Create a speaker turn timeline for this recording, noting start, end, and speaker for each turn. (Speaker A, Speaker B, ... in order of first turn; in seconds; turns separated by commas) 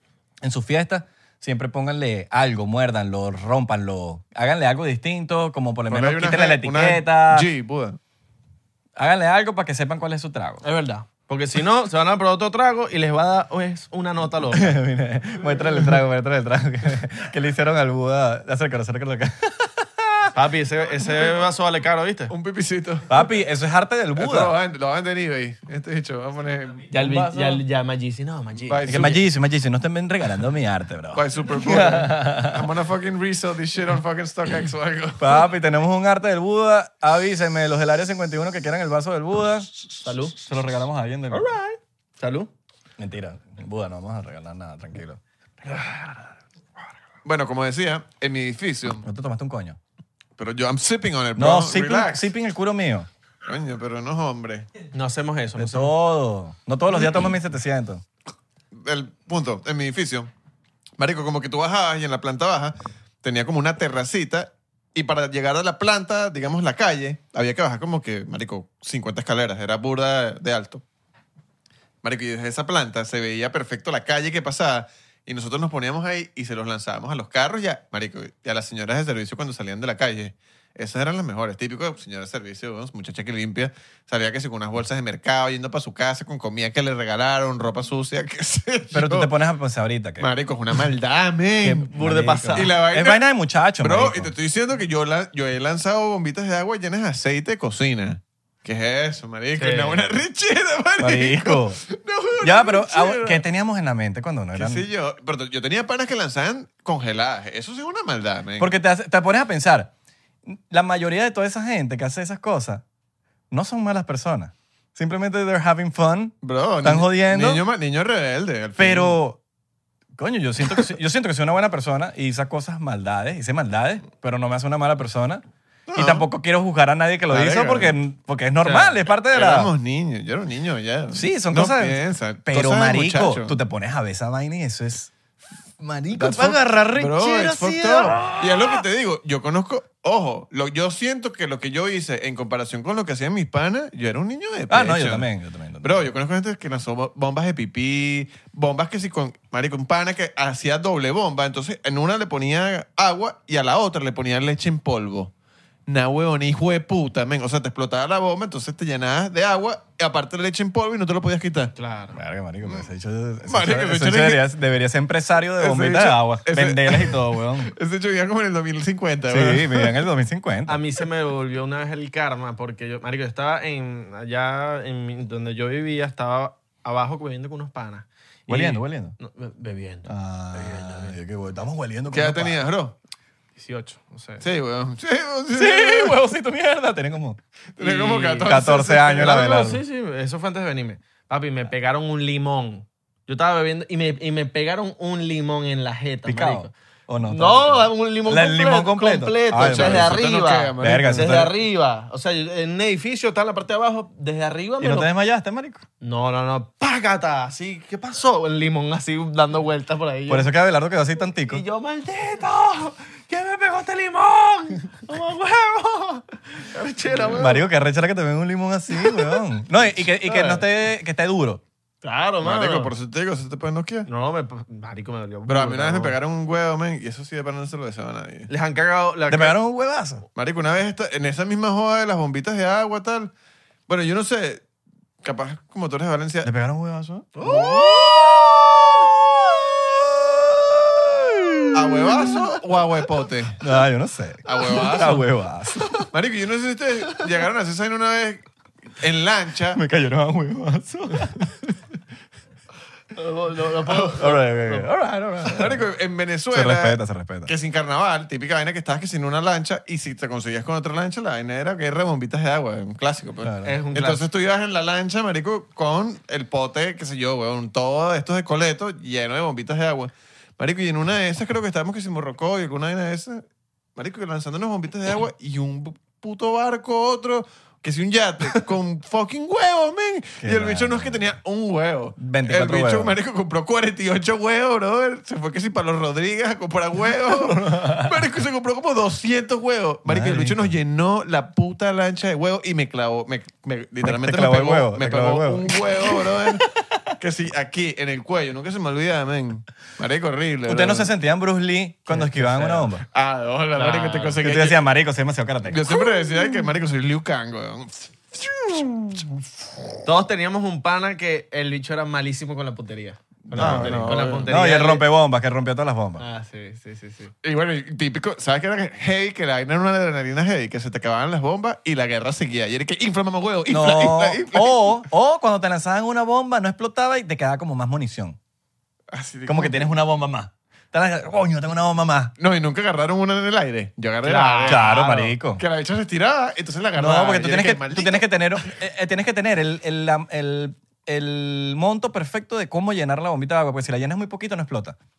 Speaker A: 0.4-7.5, Speaker B: 5.9-8.0, Speaker A: 9.0-10.6, Speaker C: 10.6-14.8, Speaker A: 14.5-20.3, Speaker C: 20.3-22.3, Speaker B: 22.3-23.2, Speaker A: 23.1-24.5, Speaker B: 24.1-27.1, Speaker C: 26.9-29.1, Speaker A: 27.0-27.6, Speaker B: 28.6-29.2, Speaker A: 28.9-32.6, Speaker B: 31.1-35.4, Speaker A: 35.2-39.7, Speaker C: 40.0-40.4, Speaker A: 40.4-41.5, Speaker C: 41.3-42.5, Speaker A: 43.0-46.0, Speaker B: 47.2-49.0, Speaker A: 49.0-49.8, Speaker B: 50.4-52.3, Speaker A: 51.4-53.1, Speaker B: 53.4-54.7, Speaker C: 54.9-55.9, Speaker A: 55.6-58.0, Speaker B: 58.7-60.3, Speaker B: 61.0-70.8, Speaker B: 72.0-89.3, Speaker A: 88.9-90.3, Speaker B: 90.2-91.9, Speaker A: 91.6-94.3, Speaker C: 91.9-92.7, Speaker B: 92.5-93.2, Speaker B: 93.8-103.4, Speaker C: 99.6-100.2, Speaker A: 101.0-101.8, Speaker A: 102.4-104.8, Speaker B: 104.5-108.7, Speaker A: 108.6-109.9, Speaker A: 110.5-112.8, Speaker A: 113.5-117.6, Speaker B: 116.4-119.2, Speaker A: 118.8-119.4, Speaker A: 120.2-125.4, Speaker B: 125.9-126.3, Speaker A: 125.9-129.7, Speaker B: 127.3-128.0, Speaker B: 129.3-133.6, Speaker A: 131.1-135.1, Speaker A: 135.8-138.8, Speaker B: 136.1-145.3, Speaker A: 144.7-146.1, Speaker B: 145.8-155.3, Speaker B: 155.9-161.7, Speaker C: 161.8-162.2, Speaker A: 162.1-167.7, Speaker B: 163.5-164.4, Speaker B: 165.6-170.0, Speaker A: 169.3-170.8, Speaker C: 170.7-181.2, Speaker A: 178.5-179.2, Speaker A: 180.0-182.6, Speaker B: 182.1-182.9, Speaker C: 183.6-184.4, Speaker B: 184.4-186.2, Speaker A: 185.5-187.4, Speaker B: 187.8-189.4, Speaker C: 187.8-188.6, Speaker A: 188.4-189.8, Speaker C: 189.1-196.7, Speaker A: 196.2-200.2, Speaker C: 197.2-205.1, Speaker B: 199.5-201.5, Speaker A: 200.8-201.5, Speaker A: 204.8-205.8, Speaker C: 206.0-210.5, Speaker A: 210.3-211.6, Speaker C: 211.4-217.7, Speaker A: 217.3-221.6, Speaker C: 218.9-219.4, Speaker C: 220.0-220.7, Speaker C: 222.0-222.9, Speaker B: 222.4-224.1, Speaker C: 224.1-226.2, Speaker B: 225.5-228.5, Speaker C: 228.5-229.6, Speaker A: 229.3-230.2, Speaker B: 230.3-233.3, Speaker B: 233.9-234.6, Speaker B: 235.2-236.5, Speaker A: 236.4-237.3, Speaker C: 237.3-238.9, Speaker B: 237.4-237.9, Speaker A: 238.9-242.3, Speaker B: 241.7-243.6, Speaker A: 243.6-245.9, Speaker B: 244.4-245.2, Speaker C: 244.7-245.1, Speaker B: 246.1-248.4, Speaker B: 249.0-249.8, Speaker A: 249.7-251.5, Speaker C: 253.1-254.9, Speaker A: 253.9-255.8, Speaker B: 255.4-273.4, Speaker A: 256.5-257.5, Speaker A: 263.4-263.7, Speaker C: 263.6-264.2, Speaker B: 273.9-296.6, Speaker A: 280.4-281.2, Speaker A: 282.2-283.1, Speaker A: 287.3-288.1, Speaker A: 290.1-290.7, Speaker A: 294.0-297.1, Speaker B: 297.2-301.1, Speaker A: 300.7-303.0, Speaker C: 302.1-302.9, Speaker B: 303.0-304.8, Speaker C: 303.8-304.4, Speaker A: 304.4-305.9, Speaker B: 305.6-309.2, Speaker C: 310.0-315.0, Speaker A: 313.5-316.2, Speaker B: 313.5-314.5, Speaker C: 316.2-317.3, Speaker B: 317.4-325.0, Speaker A: 323.7-328.4, Speaker B: 329.1-329.9, Speaker A: 329.5-332.3, Speaker B: 332.4-334.9, Speaker C: 334.2-335.4, Speaker A: 334.7-335.6, Speaker B: 335.6-338.6, Speaker A: 336.9-344.9